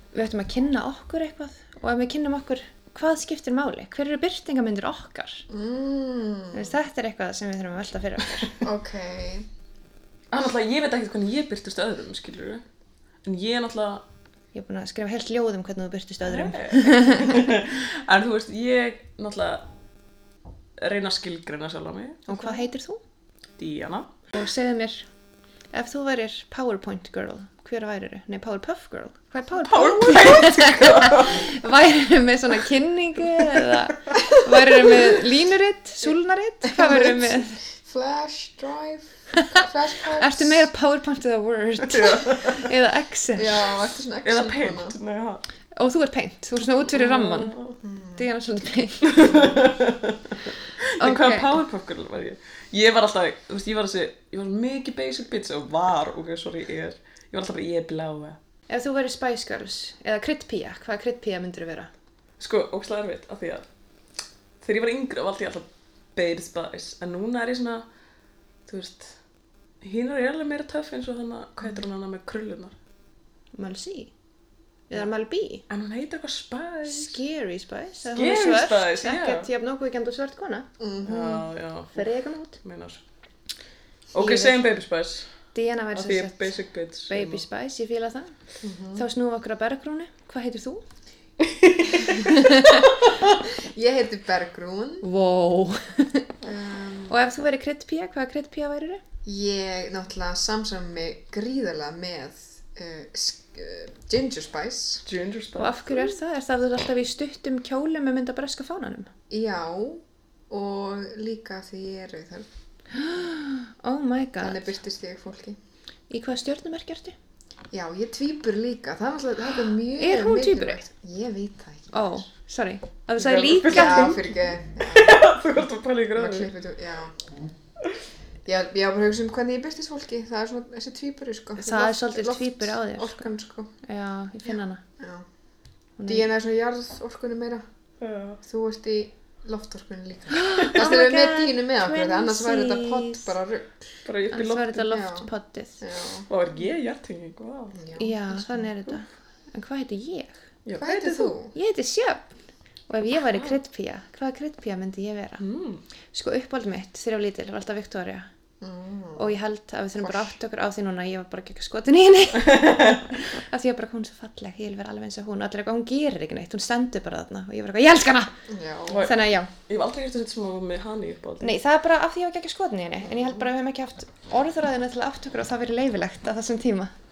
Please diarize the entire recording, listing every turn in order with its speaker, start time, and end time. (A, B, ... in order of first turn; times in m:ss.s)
0:00.1-0:05.5 A
0:05.5-0:06.7 B
0:06.5-0:08.6 A
0:08.6-0:09.5 B
0:10.3-0:12.6 C
0:13.3-0:14.0 C
0:14.5-0:17.2 A
0:16.2-0:19.6 C
0:20.8-0:22.6 C
0:22.3-0:23.0 A
0:23.6-0:24.1 C
0:24.3-0:25.1 A
0:25.7-0:37.6 A
0:29.6-0:31.5 C
0:34.7-0:35.0 B
0:36.6-0:40.7 B
0:40.2-0:43.6 A
0:42.1-0:42.7 C
0:43.4-0:45.0 B
0:44.2-0:45.4 C
0:45.8-0:47.6 A
0:46.9-0:47.8 C
0:47.8-0:48.3 B
0:48.2-0:49.4 A
0:49.1-0:58.4 C
0:51.0-0:51.6 A
0:58.7-1:01.9 A
1:02.4-1:03.7 C
1:04.6-1:07.8 C
1:08.7-1:09.1 C
1:09.8-1:12.7 C
1:13.5-1:14.1 A
1:14.9-1:15.6 A
1:15.7-1:17.2 C
1:16.9-1:20.7 A
1:18.1-1:19.5 C
1:20.8-1:21.5 B
1:21.0-1:22.0 C
1:21.9-1:22.6 A
1:22.6-1:23.0 C
1:24.1-1:25.3 C
1:24.2-1:24.6 A
1:25.5-1:28.3 A
1:26.0-1:27.4 C
1:28.6-1:29.0 B
1:29.0-1:30.8 A
1:31.5-1:32.0 C
1:32.0-1:32.9 A
1:33.6-1:35.1 B
1:35.0-1:36.3 A
1:36.4-1:37.2 B
1:37.1-1:39.0 A
1:39.2-1:45.0 B
1:45.1-1:46.2 C
1:45.6-1:49.1 A
1:49.3-1:52.5 B
1:52.9-1:54.7 A
1:54.4-1:55.6 B
1:56.1-1:57.2 A
1:57.7-2:02.2 B
1:59.9-2:00.9 A
2:01.9-2:04.2 A
2:03.2-2:06.5 C
2:03.6-2:05.2 B
2:06.2-2:07.2 B
2:08.4-2:13.7 B
2:11.6-2:13.3 A
2:13.8-2:14.8 A
2:15.0-2:15.2 B
2:16.0-2:16.3 A
2:16.1-2:17.6 B
2:18.0-2:18.4 C
2:18.4-2:23.8 B
2:20.3-2:23.4 A
2:20.6-2:20.9 C
2:24.1-2:25.0 C
2:24.3-2:25.8 A
2:24.9-2:25.3 B
2:25.8-2:26.3 B
2:26.3-2:27.8 C
2:27.7-2:28.5 B
2:28.0-2:32.4 A
2:30.7-2:31.2 C
2:30.8-2:31.6 B
2:32.9-2:35.4 A
2:35.4-2:35.8 C
2:36.1-2:38.3 A
2:38.6-2:39.3 B
2:39.2-2:48.4 A
2:40.0-2:40.3 B
2:48.5-2:49.1 B
2:48.9-2:51.6 C
2:49.0-2:49.5 A
2:51.4-2:56.9 A